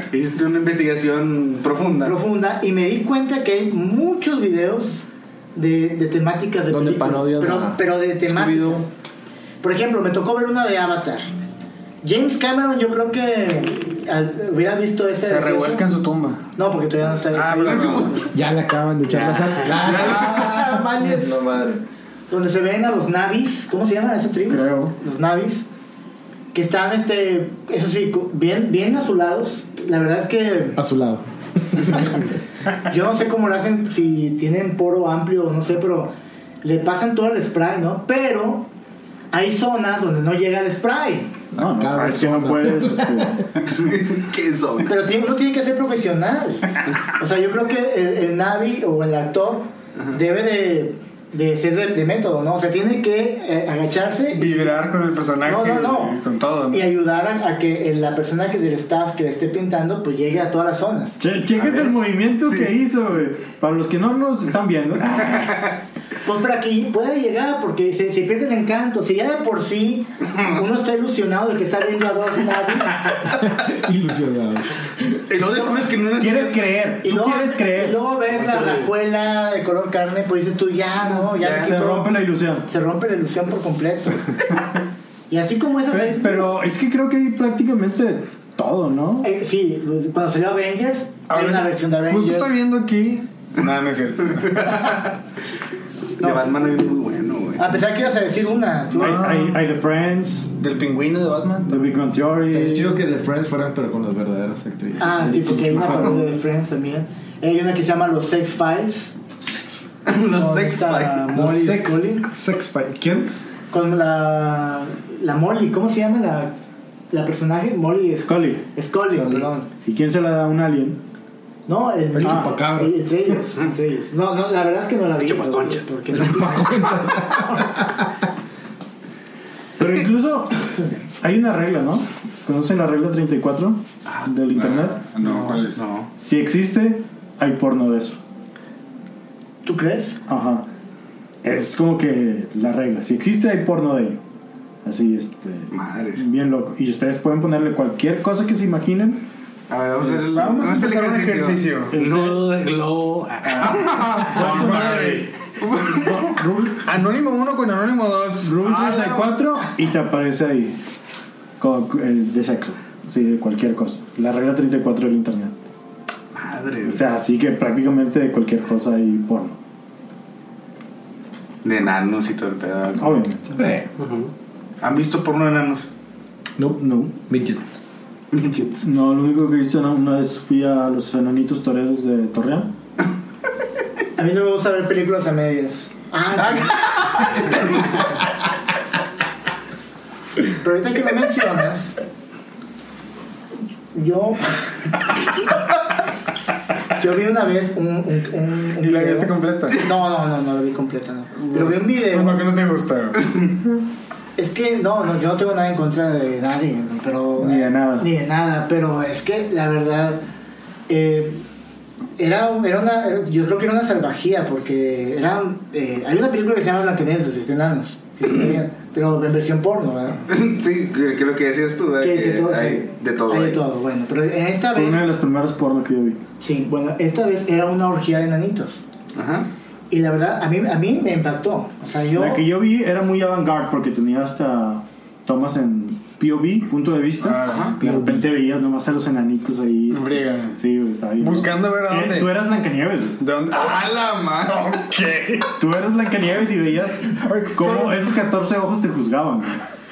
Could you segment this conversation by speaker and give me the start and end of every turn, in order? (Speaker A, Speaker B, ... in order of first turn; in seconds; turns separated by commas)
Speaker A: 0.1-2.1, Speaker B: 2.0-8.9, Speaker C: 6.7-7.8, Speaker A: 8.2-8.8, Speaker B: 9.6-11.3, Speaker B: 12.0-15.9, Speaker D: 15.2-16.4, Speaker B: 16.6-18.3, Speaker D: 17.3-18.2, Speaker A: 17.6-18.3, Speaker C: 18.3-21.8, Speaker A: 19.9-20.5, Speaker B: 22.3-25.7, Speaker E: 24.5-24.9, Speaker B: 26.5-30.8, Speaker C: 30.8-32.1, Speaker B: 32.9-38.7, Speaker B: 39.3-41.3, Speaker C: 41.5-43.5, Speaker E: 41.5-43.5, Speaker A: 43.7-44.9, Speaker B: 44.8-54.7, Speaker D: 54.3-56.9, Speaker B: 55.4-56.2, Speaker B: 56.7-61.2, Speaker E: 61.2-65.7, Speaker A: 61.5-61.9, Speaker A: 62.5-62.7, Speaker B: 66.2-73.1, Speaker C: 73.2-75.2, Speaker A: 75.3-76.7, Speaker E: 76.2-78.0, Speaker B: 77.0-84.3, Speaker F: 78.5-78.9, Speaker A: 81.3-81.8, Speaker E: 81.4-82.7, Speaker B: 85.3-86.5, Speaker E: 85.9-89.3, Speaker B: 89.2-92.5, Speaker D: 91.3-95.0, Speaker A: 94.5-94.9, Speaker A: 96.2-97.6, Speaker B: 96.2-96.5, Speaker B: 97.6-99.3, Speaker D: 99.0-99.5, Speaker E: 99.0-100.5, Speaker D: 100.6-101.9, Speaker E: 101.6-103.0, Speaker C: 102.5-106.2, Speaker B: 105.0-109.1, Speaker A: 110.0-111.3, Speaker B: 110.3-112.3, Speaker C: 111.3-113.3, Speaker B: 113.7-116.5, Speaker B: 117.1-119.7, Speaker E: 118.2-118.7, Speaker E: 119.8-121.0, Speaker B: 121.7-127.2, Speaker C: 122.1-123.0, Speaker E: 122.2-122.5, Speaker F: 125.2-126.0, Speaker C: 126.1-128.1, Speaker E: 129.8-135.3, Speaker D: 134.5-135.8, Speaker A: 135.4-136.1, Speaker E: 136.2-138.2, Speaker B: 139.6-140.2, Speaker E: 140.3-140.7, Speaker E: 141.4-144.2, Speaker E: 144.8-149.3, Speaker A: 145.7-146.2, Speaker A: 149.7-151.6, Speaker E: 150.0-150.7, Speaker D: 150.1-151.9, Speaker E: 151.9-152.5, Speaker F: 151.9-154.1, Speaker D: 153.4-155.2, Speaker A: 153.7-154.3, Speaker E: 154.2-155.3, Speaker A: 155.6-156.3, Speaker E: 155.8-156.9, Speaker D: 156.8-159.2, Speaker E: 158.4-160.8, Speaker A: 158.7-159.0, Speaker E: 161.6-165.6, Speaker A: 166.3-167.0, Speaker E: 166.8-169.6, Speaker A: 171.6-173.3, Speaker E: 173.0-173.5, Speaker C: 173.5-173.9, Speaker F: 174.0-174.3, Speaker A: 174.8-175.9, Speaker C: 176.6-177.8, Speaker E: 176.8-177.2, Speaker A: 178.3-178.8, Speaker E: 178.8-182.7, Speaker B: 184.2-187.6, Speaker B: 190.5-192.0, Speaker B: 193.9-194.5, Speaker B: 196.9-202.5, Speaker D: 198.8-199.9, Speaker D: 201.4-203.2, Speaker B: 204.4-210.2, Speaker E: 207.4-208.1, Speaker B: 210.9-211.4, Speaker B: 212.2-220.2, Speaker A: 220.3-223.6, Speaker B: 222.0-225.0, Speaker E: 224.7-226.2, Speaker B: 226.4-228.8, Speaker A: 229.1-229.5, Speaker B: 229.9-232.4, Speaker E: 232.1-243.2, Speaker D: 237.2-237.8, Speaker C: 237.8-238.2, Speaker D: 239.9-240.6, Speaker D: 241.2-242.3, Speaker D: 243.2-245.5, Speaker E: 245.6-249.6, Speaker D: 247.2-248.2